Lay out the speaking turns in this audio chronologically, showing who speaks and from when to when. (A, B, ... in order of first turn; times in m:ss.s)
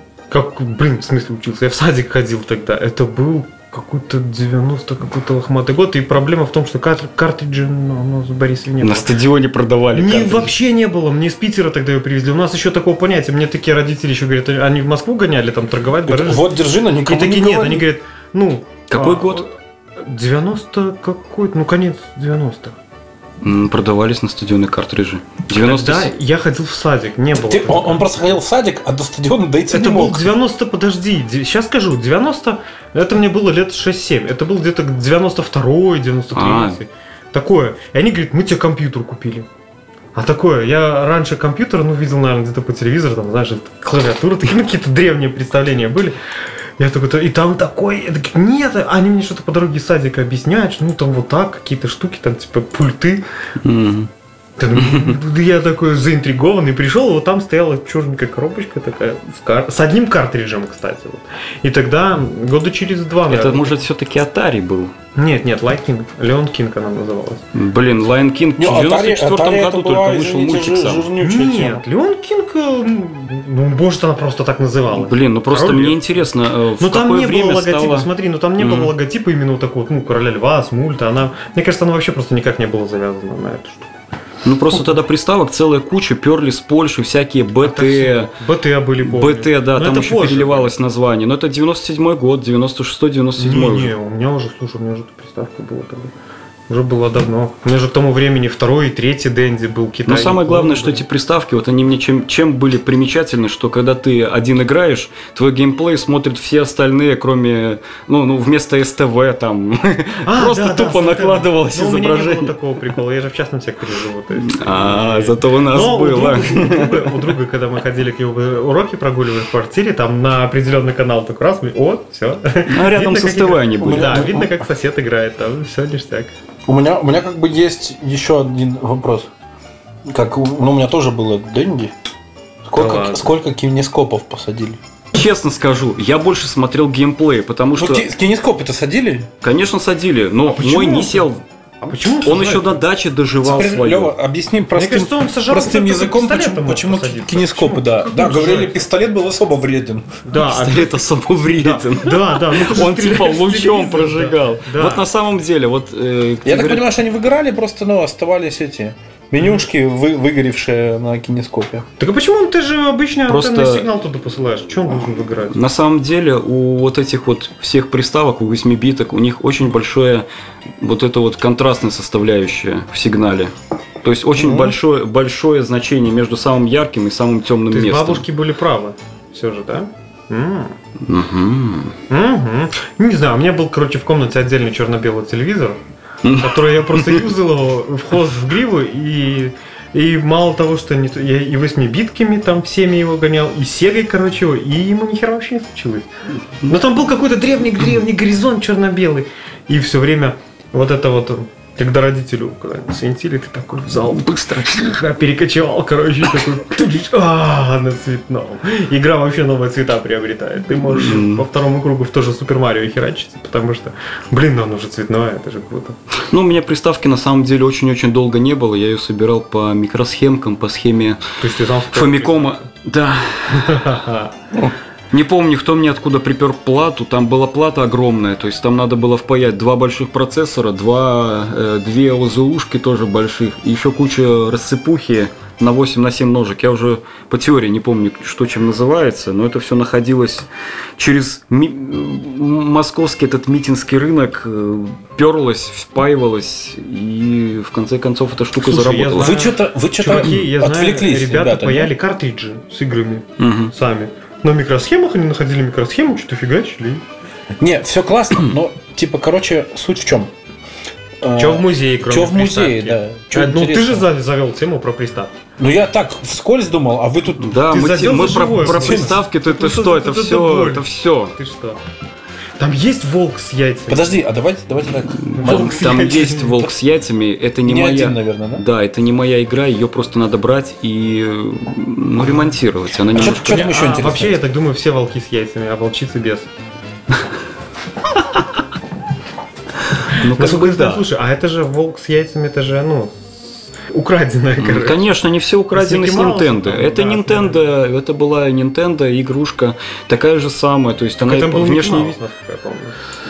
0:00.3-0:09.1 A
0:08.8-0:10.5 B
0:09.9-0:16.5 A
0:16.0-0:17.9 C
0:17.0-0:22.8 A
0:18.9-0:19.4 B
0:23.4-0:26.1 B
0:25.5-0:28.1 A
0:27.4-0:30.3 C
0:29.7-0:39.5 A
0:36.3-0:36.8 B
0:40.1-0:46.2 A
0:46.8-0:53.2 A
0:53.6-0:54.1 B
0:54.6-1:03.8 A
0:54.8-0:55.1 B
1:03.3-1:04.9 B
1:05.2-1:07.4 A
1:07.5-1:11.0 B
1:08.6-1:11.8 C
1:11.2-1:16.0 A
1:14.9-1:18.9 B
1:16.8-1:23.9 A
1:24.4-1:28.3 B
1:27.6-1:30.7 A
1:29.0-1:33.9 B
1:33.4-1:36.1 A
1:36.7-1:41.0 A
1:40.0-1:52.6 B
1:50.2-2:06.3 A
1:54.4-1:57.3 B
2:02.7-2:04.2 B
2:03.8-2:04.6 C
2:06.6-2:09.3 C
2:10.1-2:11.9 C
2:12.6-2:14.8 C
2:12.7-2:13.3 A
2:15.1-2:18.1 B
2:17.8-2:19.3 C
2:19.4-2:21.4 B
2:20.5-2:21.3 A
2:21.8-2:22.8 A
2:22.2-2:24.1 B
2:23.4-2:30.2 C
2:24.7-2:28.8 A
2:30.2-2:31.0 A
2:30.3-2:36.9 B
2:31.6-2:35.0 A
2:36.4-2:41.9 C
2:39.4-2:39.6 A
2:42.0-2:45.6 A
2:43.3-2:43.9 B
2:45.5-2:50.2 B
2:50.8-2:58.2 B
2:54.4-2:54.7 A
2:57.7-3:00.7 A
3:01.0-3:02.0 B
3:02.1-3:05.8 A
3:06.2-3:07.3 B
3:06.3-3:16.1 A
3:16.6-3:36.0 A
3:24.2-3:25.0 B
3:30.8-3:31.4 B
3:36.3-3:41.2 B
3:41.4-3:42.6 A
3:41.9-3:43.9 B
3:43.5-3:44.3 A
3:45.1-4:09.4 B
4:08.6-4:17.0 A
4:09.2-4:11.9 C
4:13.4-4:13.7 B
4:17.6-4:20.3 C
4:21.2-4:24.1 C
4:21.4-4:25.3 A
4:25.6-4:27.6 C
4:27.4-4:31.3 B
4:27.7-4:31.8 A
4:28.7-4:29.2 C
4:32.6-4:34.2 A
4:33.9-4:36.5 C
4:35.1-4:43.8 B
4:35.3-4:36.6 A
4:37.6-4:38.6 C
4:43.1-4:44.4 C
4:43.2-4:46.5 A
4:50.1-4:51.0 B
4:50.1-4:55.0 A
4:54.6-5:02.2 B
4:55.7-4:57.6 A
5:01.2-5:03.0 A